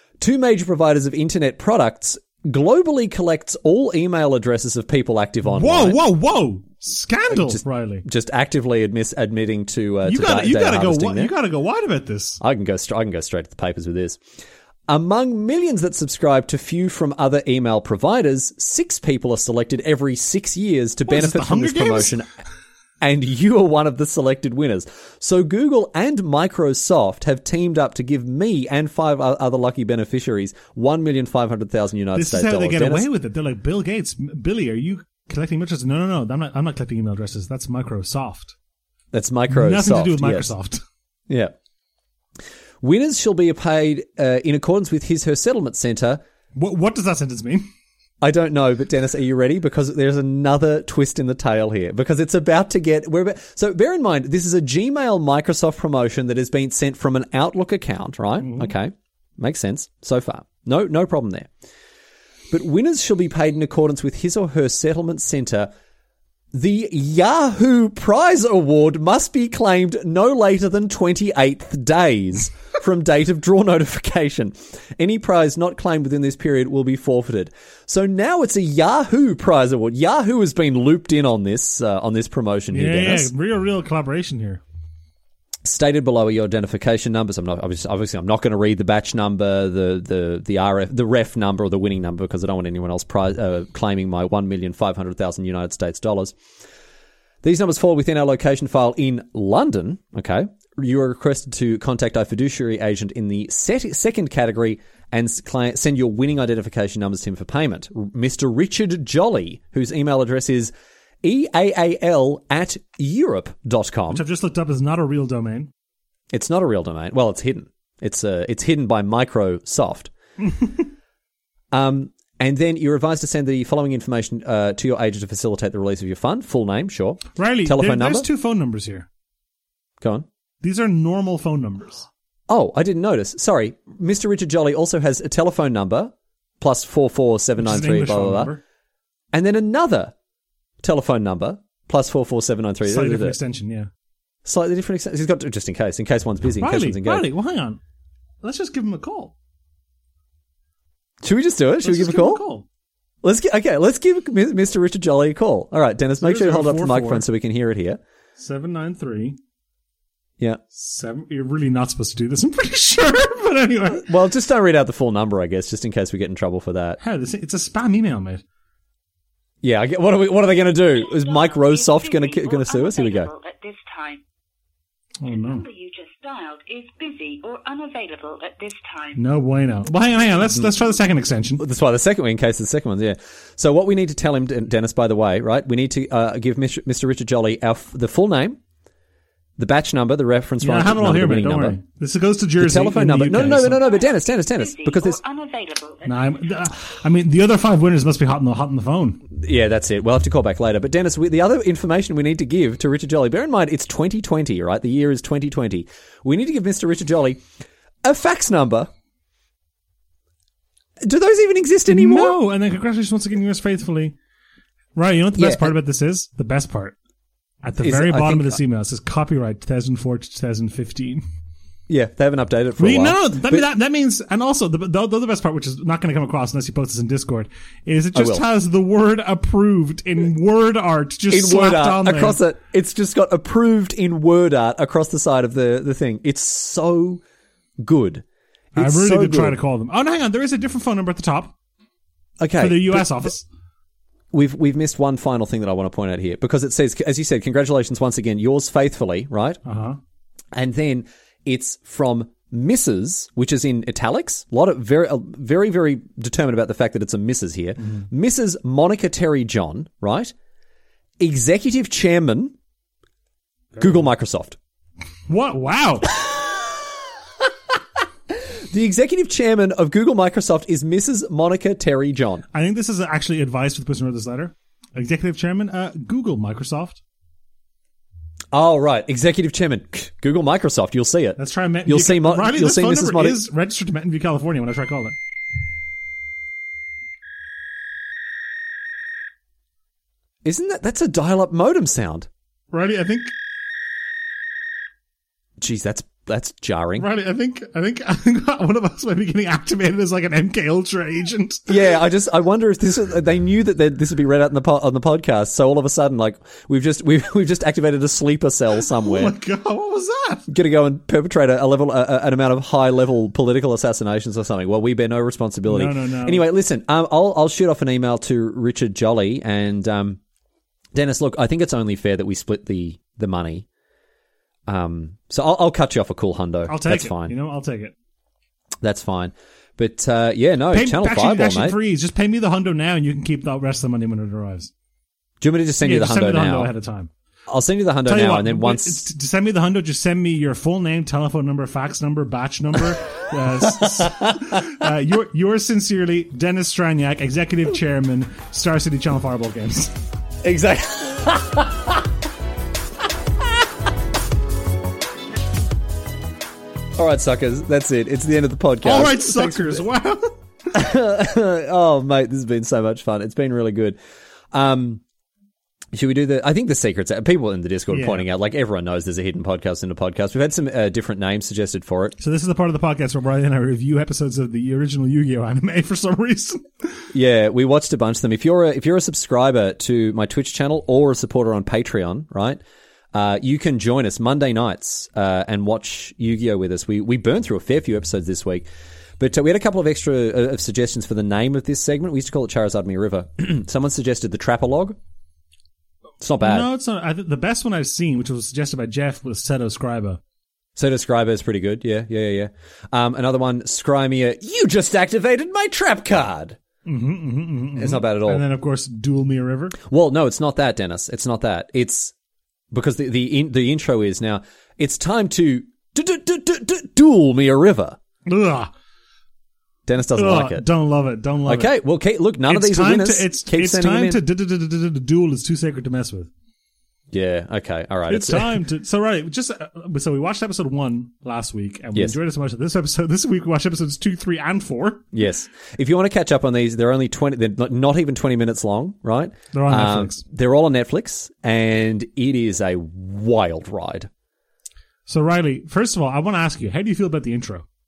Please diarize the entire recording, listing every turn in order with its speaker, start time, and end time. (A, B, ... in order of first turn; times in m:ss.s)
0:00.2-0:06.0 A
0:05.4-0:08.0 B
0:07.3-0:11.3 A
0:10.0-0:12.4 B
0:12.4-0:14.2 A
0:14.9-0:22.3 A
0:21.1-0:22.2 B
0:23.0-0:33.0 A
0:32.1-0:38.5 B
0:39.1-0:40.5 A
0:39.5-0:40.8 B
0:41.3-0:41.5 A
0:42.8-0:46.2 A
0:46.5-0:47.7 B
0:48.2-1:01.5 A
0:58.4-0:58.7 B
1:02.5-1:05.7 A
1:06.5-1:23.3 A
1:22.7-1:24.6 B
1:25.6-1:36.3 A
1:37.4-1:50.7 A
1:51.2-1:54.2 A
1:54.1-1:55.7 B
1:56.3-2:00.1 A
2:00.4-2:00.9 B
2:01.7-2:08.2 A
2:07.3-2:09.1 B
2:10.0-2:10.2 A
2:10.6-2:12.0 B
2:12.5-2:18.5 A
2:17.6-2:18.6 B
2:19.3-2:20.1 A
2:20.8-2:23.4 A
2:22.8-2:23.9 B
2:24.4-2:27.2 A
2:26.6-2:27.8 B
2:28.4-2:29.3 B
2:31.2-2:32.4 A
2:31.8-2:32.6 B
2:33.2-2:38.0 A
2:36.2-2:37.2 B
2:38.4-2:39.4 B
2:40.7-2:44.0 B
2:44.0-2:47.0 A
2:47.0-2:48.4 B
2:49.6-2:53.3 A
2:50.9-2:54.2 C
2:55.2-2:55.6 B
2:55.2-2:59.2 C
2:59.2-3:01.6 B
3:01.6-3:08.6 A
3:09.6-3:11.8 A
3:10.6-3:13.8 B
3:12.6-3:15.2 A
3:13.6-3:16.4 C
3:16.0-3:19.2 B
3:19.3-3:27.4 A
3:28.0-3:28.9 A
3:31.0-3:32.4 A
3:31.9-3:34.1 B
3:34.9-3:36.9 B
3:35.4-3:35.7 A
3:37.6-3:41.2 B
3:37.8-3:38.6 A
3:41.9-3:43.7 A
3:42.8-3:52.4 B
3:48.1-3:48.4 A
3:51.3-3:57.2 A
3:57.8-3:58.2 A
3:58.7-3:59.6 A
3:58.8-4:01.5 B
4:02.4-4:03.3 A
4:02.6-4:03.4 B
4:04.3-4:09.6 A
4:09.6-4:10.0 B
4:10.5-4:20.3 A
4:21.2-4:22.5 A
4:23.7-4:24.0 B
4:23.8-4:24.6 A
4:25.3-4:26.1 B
4:26.1-4:26.9 A
4:28.3-4:32.4 A
4:32.5-4:37.0 B
4:38.5-4:43.4 A
4:41.4-4:45.2 B
4:50.4-4:52.3 A
4:52.7-4:53.3 B
4:55.6-4:57.1 A
4:57.0-5:01.8 B
5:01.7-5:09.3 A
5:08.9-5:10.4 B
5:10.5-5:20.2 A
5:15.7-5:16.4 B
5:20.9-5:23.6 A
5:24.7-5:27.3 A
5:26.7-5:27.9 B
5:28.8-5:31.8 A
5:30.7-5:34.7 B
5:35.4-5:36.7 A
5:35.8-5:37.1 B
5:37.5-5:39.0 A
5:38.0-5:50.0 B
5:43.6-5:44.8 A
5:50.4-5:52.0 A
5:57.0-5:59.8 A
5:58.8-6:00.3 B
6:00.7-6:04.0 A
6:04.5-6:05.0 A
6:05.9-6:12.2 A
6:07.9-6:08.2 B
6:12.2-6:17.1 B
6:17.1-6:22.6 A
6:23.1-6:28.6 A
6:29.2-6:35.0 A
6:36.2-6:36.7 A
6:36.4-6:40.2 B
6:40.8-6:46.6 A
6:46.8-6:49.8 B
6:47.7-6:48.4 A
6:49.9-6:52.1 A
6:52.7-6:58.0 A
6:58.2-6:58.7 B
6:59.9-7:00.6 A
7:00.1-7:01.7 B
7:01.4-7:04.2 A
7:02.5-7:06.3 B
7:07.1-7:08.6 A
7:08.1-7:15.1 B
7:15.1-7:24.1 A
7:19.5-7:20.2 B
7:25.1-7:27.6 B